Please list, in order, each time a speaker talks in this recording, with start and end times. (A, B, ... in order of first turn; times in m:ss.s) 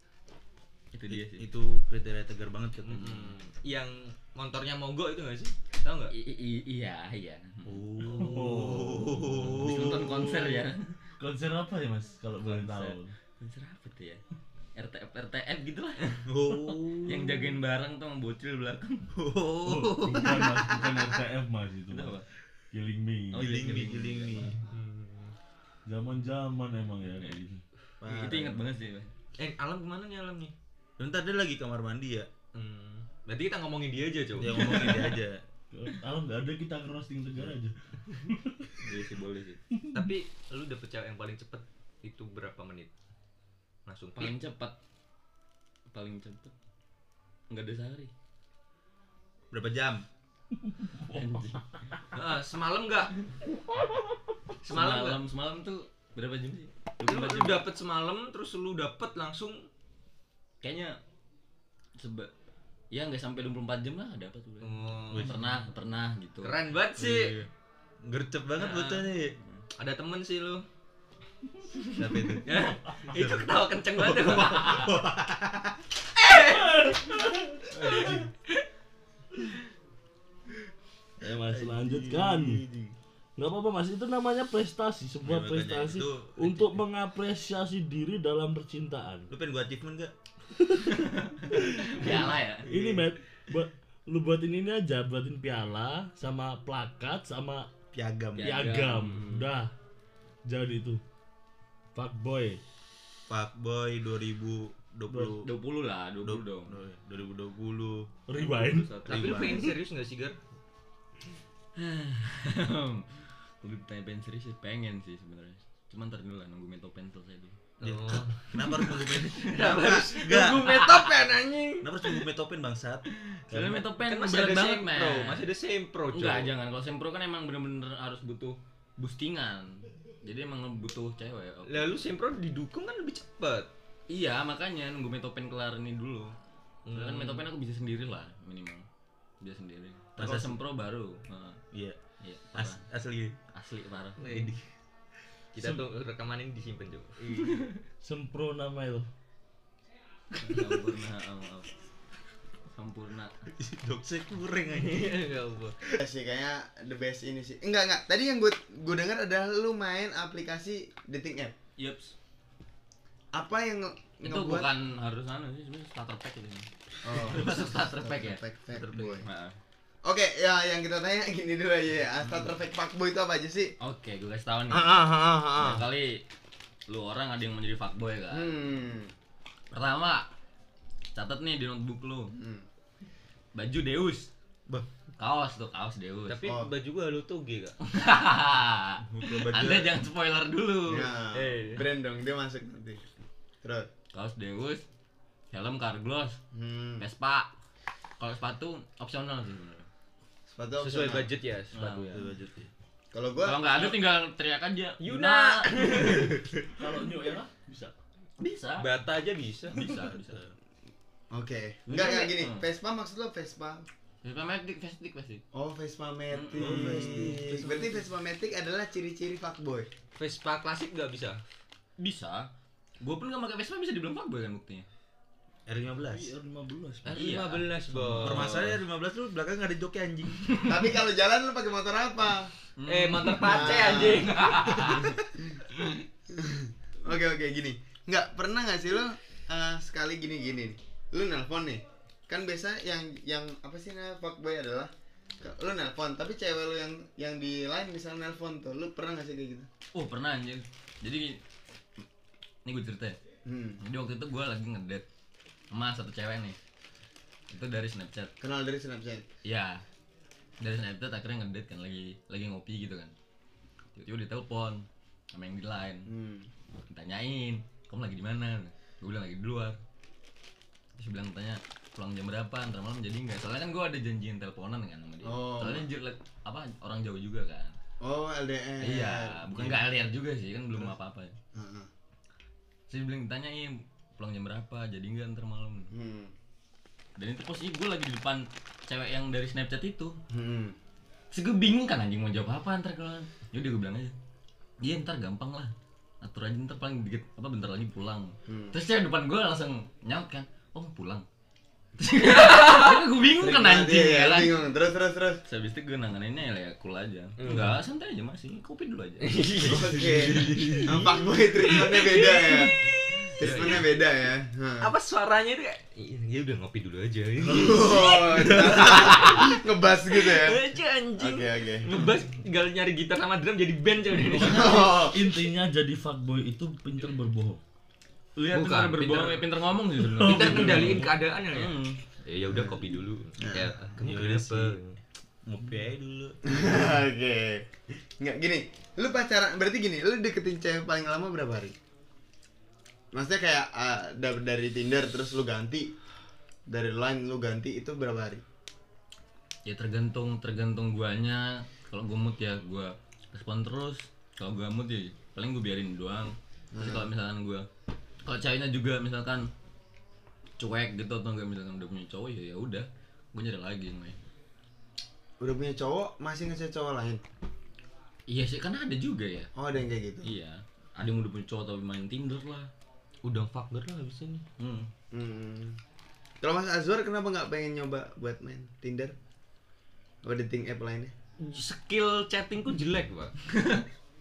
0:00.9-0:01.5 A
0:01.1-0:03.3 B
0:02.8-0:06.1 C
0:06.1-0:07.8 A
0:07.6-0:10.6 B
0:08.2-0:09.4 D
0:09.4-0:11.0 A
0:11.2-0:13.1 D
0:12.6-0:14.2 A
0:14.8-0:19.1 A
0:16.3-0:17.6 B
0:19.1-0:20.4 B
0:19.7-0:22.2 D
0:20.1-0:20.4 A
0:21.9-0:22.3 A
0:22.7-0:23.7 D
0:23.3-0:24.6 B
0:23.3-0:24.5 A
0:24.6-0:25.4 C
0:25.9-0:27.6 D
0:28.0-0:28.6 B
0:28.0-0:29.1 A
0:29.4-0:30.5 C
0:31.0-0:32.3 B
0:32.5-0:35.0 C
0:34.4-0:35.4 B
0:35.7-0:38.7 D
0:38.8-0:39.6 A
0:39.8-0:40.0 D
0:39.9-0:42.9 C
0:43.9-0:44.3 C
0:44.2-0:44.8 A
0:45.9-0:46.5 A
0:47.5-0:48.1 A
0:49.5-0:50.0 B
0:50.6-0:51.4 D
0:51.1-0:51.7 A
0:52.1-0:53.1 C
0:54.6-0:55.2 C
0:54.6-0:57.6 A
0:57.0-0:59.7 C
1:00.6-1:01.0 A
1:02.0-1:02.3 A
1:02.9-1:06.6 A
1:04.6-1:05.4 C
1:05.1-1:05.6 B
1:06.4-1:07.4 C
1:07.0-1:07.5 B
1:08.0-1:09.4 B
1:08.6-1:09.0 C
1:09.4-1:09.6 A
1:09.8-1:10.6 C
1:11.9-1:12.6 B
1:12.4-1:15.0 C
1:13.1-1:15.8 B
1:16.2-1:18.6 C
1:17.7-1:18.3 B
1:21.2-1:22.6 D
1:21.5-1:23.0 B
1:23.4-1:29.3 D
1:25.2-1:26.8 B
1:29.3-1:30.1 B
1:30.5-1:37.7 D
1:30.9-1:32.8 A
1:32.7-1:33.0 B
1:37.9-1:38.8 B
1:38.4-1:39.5 A
1:38.4-1:39.7 D
1:40.5-1:41.0 D
1:42.0-1:42.6 D
1:43.3-1:45.5 B
1:45.1-1:45.4 D
1:45.4-1:46.8 A
1:46.2-1:48.1 B
1:48.3-1:49.0 D
1:48.4-1:49.6 A
1:49.0-1:49.7 B
1:49.1-1:50.4 C
1:51.8-1:57.6 A
1:57.8-2:02.2 C
1:57.8-2:00.9 B
1:58.7-2:00.0 A
2:00.6-2:01.0 A
2:01.8-2:03.9 B
2:03.3-2:05.5 A
2:04.1-2:06.5 C
2:06.1-2:12.0 A
2:11.7-2:13.7 C
2:14.1-2:16.4 A
2:16.9-2:17.4 C
2:16.9-2:18.9 A
2:19.4-2:21.6 A
2:20.2-2:20.6 B
2:21.7-2:22.0 B
2:22.2-2:22.8 A
2:22.6-2:23.4 B
2:23.5-2:24.2 A
2:24.2-2:24.6 C
2:24.2-2:24.6 B
2:25.5-2:27.5 C
2:27.2-2:27.6 B
2:27.3-2:27.7 A
2:28.0-2:29.1 D
2:30.4-2:31.7 A
2:32.7-2:33.3 A
2:33.6-2:35.2 B
2:34.7-2:35.8 C
2:36.0-2:41.6 E
2:41.8-2:42.2 A
2:43.3-2:44.7 E
2:44.2-2:48.4 A
2:47.0-2:49.3 E
2:48.8-2:49.3 C
2:49.2-2:49.6 A
2:50.0-2:53.7 E
2:53.8-2:56.2 A
2:54.7-2:55.8 C
2:56.9-2:58.6 A
2:58.3-2:59.1 E
2:59.7-3:00.3 A
3:01.1-3:02.3 A
3:02.3-3:02.7 E
3:03.6-3:04.3 A
3:05.2-3:06.4 A
3:06.3-3:07.8 C
3:06.4-3:06.7 E
3:07.9-3:11.1 A
3:09.0-3:10.0 B
3:10.9-3:13.0 E
3:11.3-3:11.9 C
3:13.6-3:13.9 E
3:14.1-3:14.8 A
3:15.5-3:16.4 A
3:16.5-3:17.0 E
3:17.0-3:17.5 A
3:18.2-3:19.9 A
3:20.5-3:21.3 E
3:20.8-3:21.8 C
3:21.7-3:22.3 A
3:21.8-3:22.3 D
3:22.1-3:22.7 B
3:23.1-3:23.8 E
3:23.4-3:26.3 A
3:25.0-3:26.6 C
3:26.8-3:28.0 D
3:28.4-3:28.9 A
3:28.8-3:29.8 C
3:29.7-3:30.4 A
3:29.8-3:30.5 B
3:31.3-3:33.9 E
3:31.9-3:32.6 A
3:34.2-3:35.4 A
3:35.5-3:39.9 E
3:36.3-3:37.0 A
3:36.6-3:37.7 B
3:37.2-3:37.8 D
3:40.2-3:41.4 C
3:42.0-3:44.9 A
3:45.7-3:46.4 B
3:46.1-3:47.5 D
3:47.0-3:48.8 A
3:47.1-3:48.6 C
3:48.1-3:50.5 B
3:50.5-3:50.8 A
3:50.7-3:52.5 E
3:52.8-3:55.2 A
3:52.9-3:55.0 C
3:53.4-3:55.4 E
3:56.3-4:09.7 E
4:09.9-4:11.4 A
4:12.6-4:13.2 A
4:13.4-4:13.8 E
4:13.8-4:15.1 A
4:15.7-4:16.6 A
4:17.5-4:18.3 A
4:18.4-4:19.3 E
4:19.4-4:19.8 A
4:20.6-4:23.1 A
4:24.0-4:26.1 A
4:26.1-4:26.5 E
4:26.9-4:29.8 A
4:31.0-4:37.8 A
4:35.2-4:35.9 E
4:38.0-4:39.8 E
4:38.8-4:41.4 A
4:41.5-4:41.9 E
4:42.9-4:45.9 A
4:45.9-4:46.3 E
4:47.2-4:50.2 A
4:50.3-4:50.8 E
4:51.3-4:54.2 A
4:54.8-5:01.3 A
4:58.5-4:58.8 E
5:02.0-5:04.6 A
5:02.3-5:02.9 C
5:03.4-5:05.4 E
5:05.4-5:10.8 A
5:07.4-5:07.7 C
5:09.7-5:12.7 E
5:09.7-5:11.0 B
5:09.7-5:10.2 D
5:11.8-5:12.7 C
5:13.4-5:14.9 E
5:13.4-5:13.9 C
5:14.8-5:19.5 C
5:17.4-5:21.9 E
5:20.2-5:24.9 C
5:24.3-5:27.6 D
5:24.4-5:25.3 E
5:24.4-5:24.9 A
5:28.4-5:32.0 A
5:28.5-5:29.5 C
5:30.0-5:31.1 D
5:30.2-5:35.0 C
5:32.5-5:32.9 E
5:33.4-5:33.8 E
5:34.0-5:34.8 B
5:35.4-5:36.6 B
5:36.5-5:37.7 E
5:38.2-5:41.8 E
5:43.1-5:45.9 E
5:46.7-5:48.4 E
5:49.7-5:57.7 A
5:56.7-5:57.1 E
5:58.2-5:59.5 A
6:00.6-6:04.2 A
6:05.4-6:07.2 E
6:08.3-6:09.5 A
6:09.6-6:10.3 E
6:10.2-6:12.7 A
6:13.2-6:14.4 C
6:14.6-6:14.9 A
6:15.1-6:15.8 E
6:16.4-6:19.2 E
6:20.2-6:21.1 E
6:21.4-6:23.3 C
6:23.6-6:23.8 A